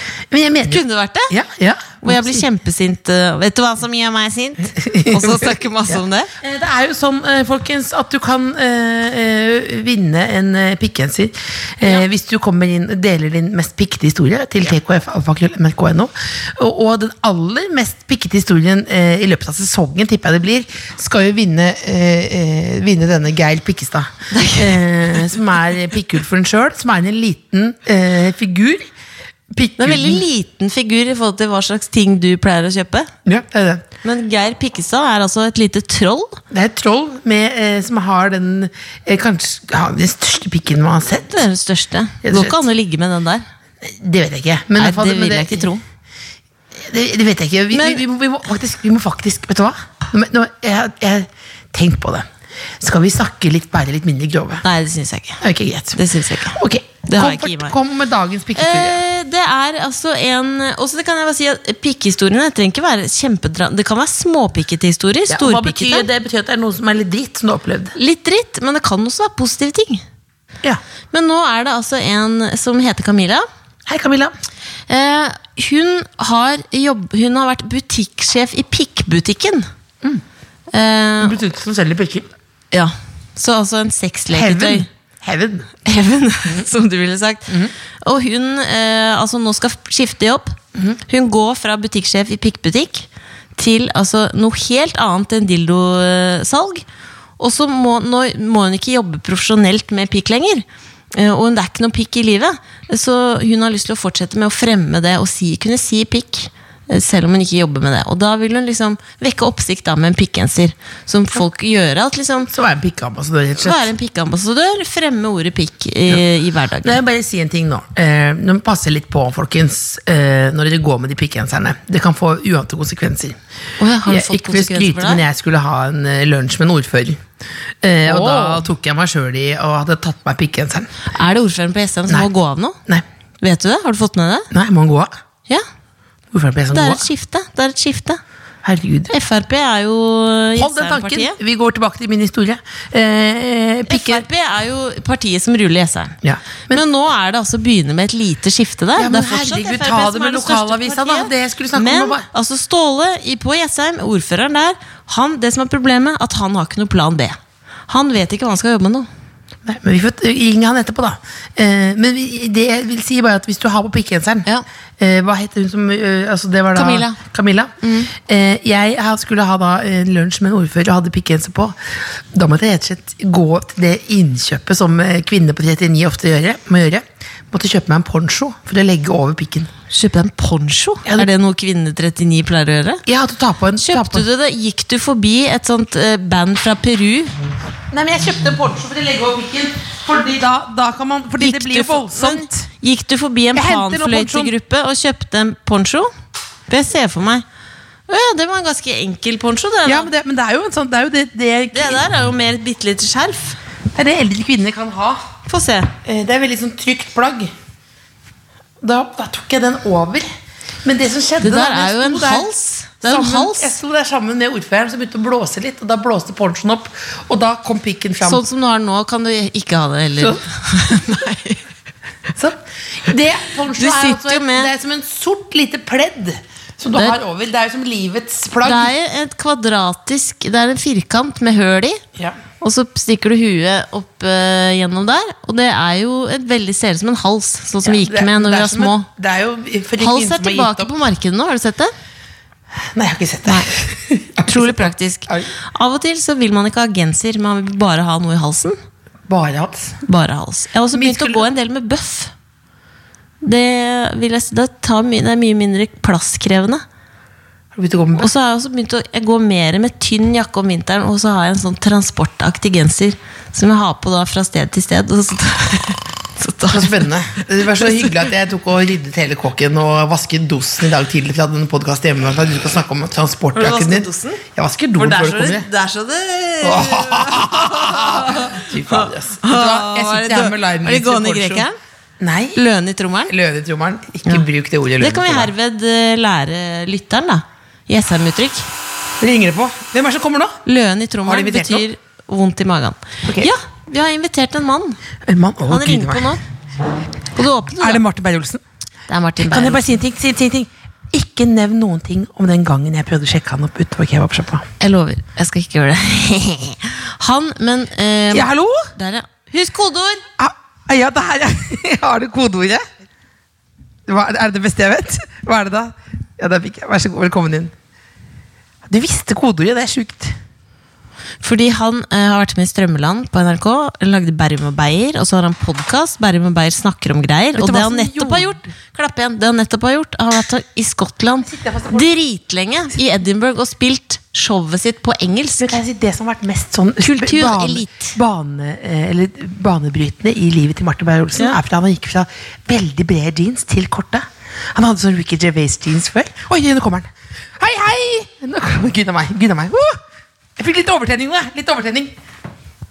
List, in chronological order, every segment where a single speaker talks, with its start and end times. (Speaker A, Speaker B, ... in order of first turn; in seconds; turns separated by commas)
Speaker A: 0.3-2.5, Speaker B: 0.7-1.3, Speaker B: 2.0-6.3, Speaker A: 4.7-28.9, Speaker B: 24.3-24.8, Speaker A: 29.5-30.2, Speaker B: 29.8-33.1, Speaker A: 33.2-33.8, Speaker B: 34.0-36.4, Speaker A: 36.5-41.4, Speaker B: 41.2-43.4, Speaker A: 42.2-42.6, Speaker A: 43.8-45.7, Speaker B: 44.8-45.8, Speaker A: 46.7-52.3, Speaker B: 47.7-48.0, Speaker A: 52.8-54.6, Speaker B: 54.6-55.4, Speaker A: 55.4-59.0, Speaker B: 55.9-57.8, Speaker B: 58.5-66.1, Speaker A: 65.3-68.0, Speaker B: 67.9-70.0, Speaker B: 71.1-73.5, Speaker A: 73.8-74.3, Speaker B: 74.9-79.7, Speaker B: 80.7-81.4, Speaker A: 81.2-82.3, Speaker B: 82.7-84.9, Speaker A: 84.3-85.7, Speaker B: 85.8-96.8, Speaker A: 87.5-87.7, Speaker B: 97.4-112.5, Speaker A: 112.5-113.9, Speaker B: 113.6-117.0, Speaker A: 116.8-123.4, Speaker B: 123.8-125.2, Speaker A: 124.0-127.2, Speaker A: 127.8-130.9, Speaker B: 128.1-128.6, Speaker B: 131.1-132.8, Speaker B: 133.4-134.5, Speaker A: 134.5-135.1, Speaker A: 136.3-137.0, Speaker B: 136.7-138.2, Speaker A: 138.6-139.1, Speaker B: 139.1-141.3, Speaker A: 140.6-144.2, Speaker B: 143.9-146.2, Speaker A: 146.2-146.8, Speaker B: 146.7-157.4, Speaker A: 148.9-152.2, Speaker B: 157.9-159.1, Speaker A: 159.6-164.5, Speaker A: 165.0-179.7, Speaker B: 166.7-167.2, Speaker B: 167.8-168.1, Speaker B: 179.9-183.0, Speaker A: 183.1-184.2, Speaker B: 183.8-187.3, Speaker A: 187.9-192.7, Speaker B: 191.4-196.1, Speaker A: 193.5-194.5, Speaker B: 196.7-197.4, Speaker B: 198.1-200.1, Speaker A: 199.8-202.0, Speaker B: 201.7-203.6, Speaker A: 203.9-205.2, Speaker B: 205.5-205.9, Speaker A: 206.0-207.5, Speaker A: 208.8-210.3, Speaker A: 210.8-212.5, Speaker B: 211.4-213.8, Speaker A: 213.0-218.4, Speaker B: 218.2-221.6, Speaker A: 220.2-220.4, Speaker A: 222.3-228.9, Speaker B: 223.7-224.7, Speaker B: 228.6-232.0, Speaker B: 232.6-239.1, Speaker A: 237.8-240.9, Speaker B: 240.0-241.9, Speaker A: 242.8-245.5, Speaker B: 244.4-248.8, Speaker A: 249.3-250.0, Speaker B: 250.0-252.3, Speaker A: 250.9-251.4, Speaker B: 253.4-256.8, Speaker A: 257.7-258.3, Speaker B: 258.1-267.1, Speaker A: 266.7-275.7, Speaker B: 267.8-268.1, Speaker B: 273.5-274.4, Speaker B: 275.0-281.8, Speaker A: 276.6-281.6, Speaker A: 282.2-282.6, Speaker B: 282.5-283.3, Speaker A: 283.3-285.5, Speaker B: 285.0-288.7, Speaker A: 289.2-290.6, Speaker B: 290.6-295.0, Speaker A: 291.2-291.9, Speaker A: 293.2-293.5, Speaker A: 295.2-296.4, Speaker B: 295.7-296.4, Speaker B: 297.3-298.0, Speaker A: 297.8-298.6, Speaker B: 299.1-300.0, Speaker A: 299.4-304.7, Speaker B: 304.8-310.2, Speaker A: 308.3-308.9, Speaker A: 310.4-312.8, Speaker A: 314.1-317.7, Speaker A: 318.9-320.4, Speaker B: 321.4-335.8, Speaker A: 327.6-328.6, Speaker A: 331.4-332.1, Speaker A: 335.6-350.0, Speaker B: 337.0-338.1, Speaker A: 350.6-352.1